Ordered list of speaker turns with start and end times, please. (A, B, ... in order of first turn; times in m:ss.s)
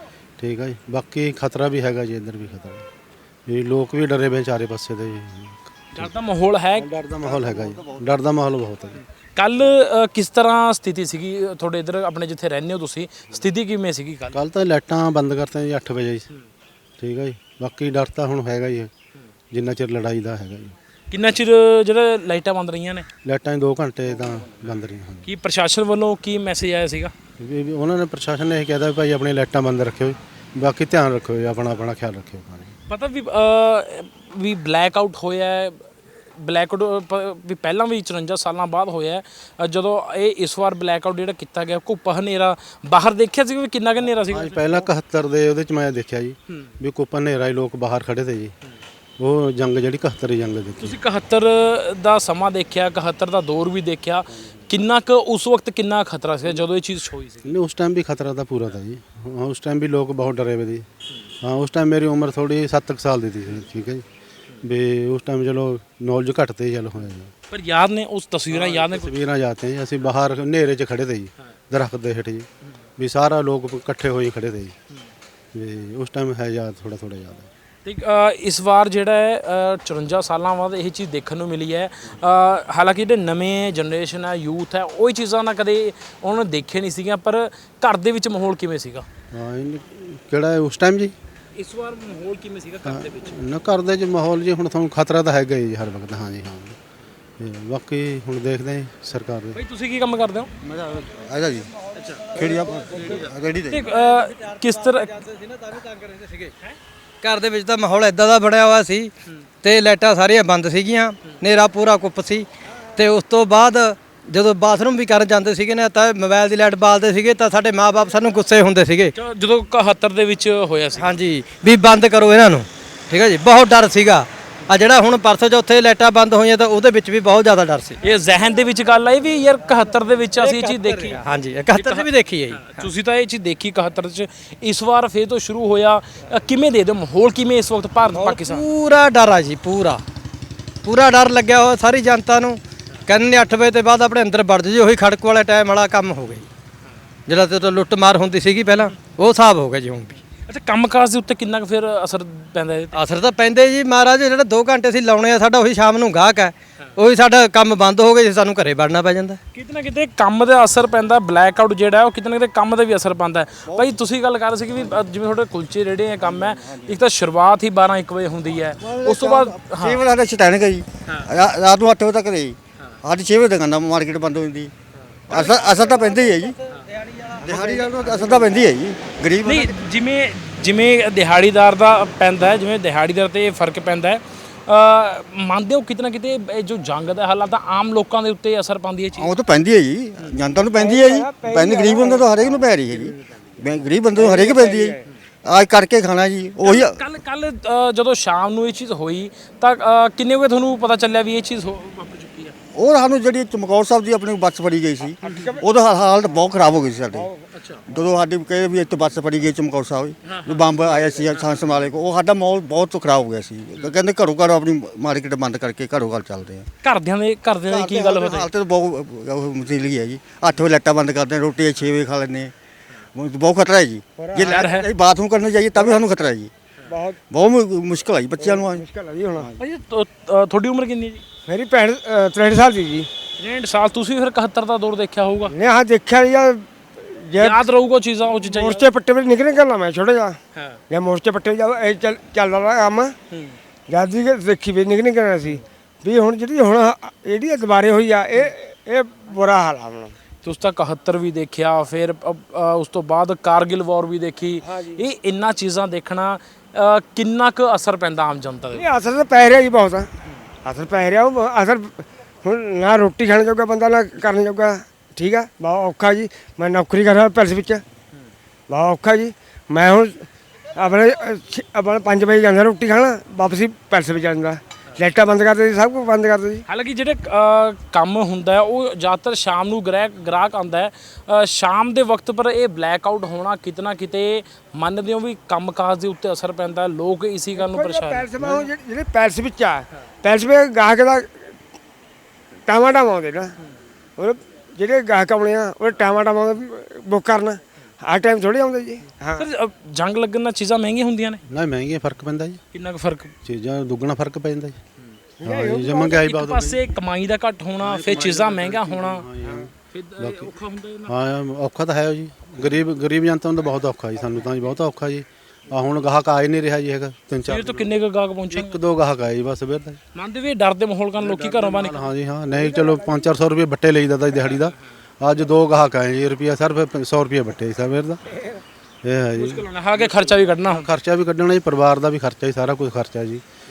0:00.4-0:02.8 A
0:03.5-0:06.1 A
0:05.9-0:06.9 B
0:06.7-0:09.0 A
0:07.2-0:08.0 C
0:09.3-0:14.4 B
0:14.3-0:16.3 A
0:17.0-0:18.9 A
0:19.5-0:20.7 A
0:21.1-0:23.1 B
0:23.2-0:25.3 A
0:25.2-0:27.1 B
0:27.4-0:32.8 A
0:32.9-0:44.9 B
0:44.3-0:48.5 A
0:49.2-0:51.0 A
0:50.8-0:57.5 B
0:57.4-1:00.8 A
1:01.4-1:04.0 A
1:04.6-1:07.3 A
1:07.5-1:09.2 B
1:08.5-1:12.5 A
1:13.0-1:14.7 A
1:15.5-1:17.5 A
1:17.8-1:29.0 B
1:29.3-1:31.1 A
1:31.6-1:33.4 B
1:32.8-1:36.8 A
1:37.4-1:39.6 A
1:39.5-1:40.5 B
1:40.6-1:41.7 C
1:42.0-1:42.4 B
1:42.3-1:43.8 C
1:43.7-1:45.1 B
1:44.0-1:46.5 D
1:47.2-1:49.1 D
1:49.6-1:59.1 D
1:59.2-2:01.2 B
2:01.0-2:08.0 D
2:08.0-2:11.2 B
2:10.4-2:12.9 D
2:11.7-2:12.1 B
2:12.6-2:18.6 B
2:18.1-2:20.0 D
2:20.8-2:26.4 D
2:27.3-2:30.2 D
2:30.5-2:32.9 B
2:32.9-2:39.4 D
2:39.5-2:50.0 B
2:43.7-2:43.9 C
2:46.2-2:47.0 C
2:48.8-2:54.7 C
2:55.3-2:56.6 C
2:57.1-2:58.6 D
2:57.4-2:59.7 C
2:59.4-3:09.3 B
3:09.2-3:17.0 C
3:10.6-3:13.1 E
3:14.1-3:15.0 E
3:16.6-3:22.5 B
3:22.7-3:27.3 C
3:25.2-3:25.6 E
3:27.1-3:27.4 E
3:27.5-3:27.8 B
3:27.9-3:36.7 C
3:30.3-3:30.8 B
3:36.8-3:38.5 B
3:37.7-3:42.5 C
3:43.1-3:46.5 C
3:44.2-3:44.8 E
3:44.4-3:44.9 B
3:45.8-3:46.0 E
3:46.9-3:47.2 E
3:47.3-3:48.8 C
3:48.4-3:49.5 E
3:49.6-3:51.2 B
3:51.5-3:53.1 E
3:53.4-3:55.5 B
3:55.5-3:57.7 E
3:57.4-3:58.8 B
3:58.4-4:00.4 E
4:00.5-4:00.8 B
4:00.9-4:03.1 E
4:03.3-4:03.6 B
4:03.9-4:10.1 E
4:10.4-4:18.8 B
4:14.6-4:15.0 E
4:18.7-4:20.1 E
4:20.6-4:27.8 E
4:28.7-4:30.2 E
4:30.8-4:36.6 E
4:36.7-4:48.7 B
4:47.5-4:51.5 E
4:52.7-4:53.5 E
4:54.2-4:59.5 E
4:59.4-5:01.4 B
5:01.5-5:02.6 A
5:02.7-5:03.3 B
5:03.4-5:04.8 A
5:05.4-5:06.2 E
5:05.4-5:06.8 A
5:06.1-5:09.2 B
5:07.8-5:10.5 A
5:09.9-5:11.1 B
5:11.1-5:17.9 A
5:17.5-5:18.8 B
5:18.5-5:20.0 A
5:20.1-5:22.0 B
5:21.2-5:28.2 A
5:22.6-5:23.2 E
5:28.4-5:28.6 E
5:29.0-5:33.4 A
5:29.4-5:30.9 B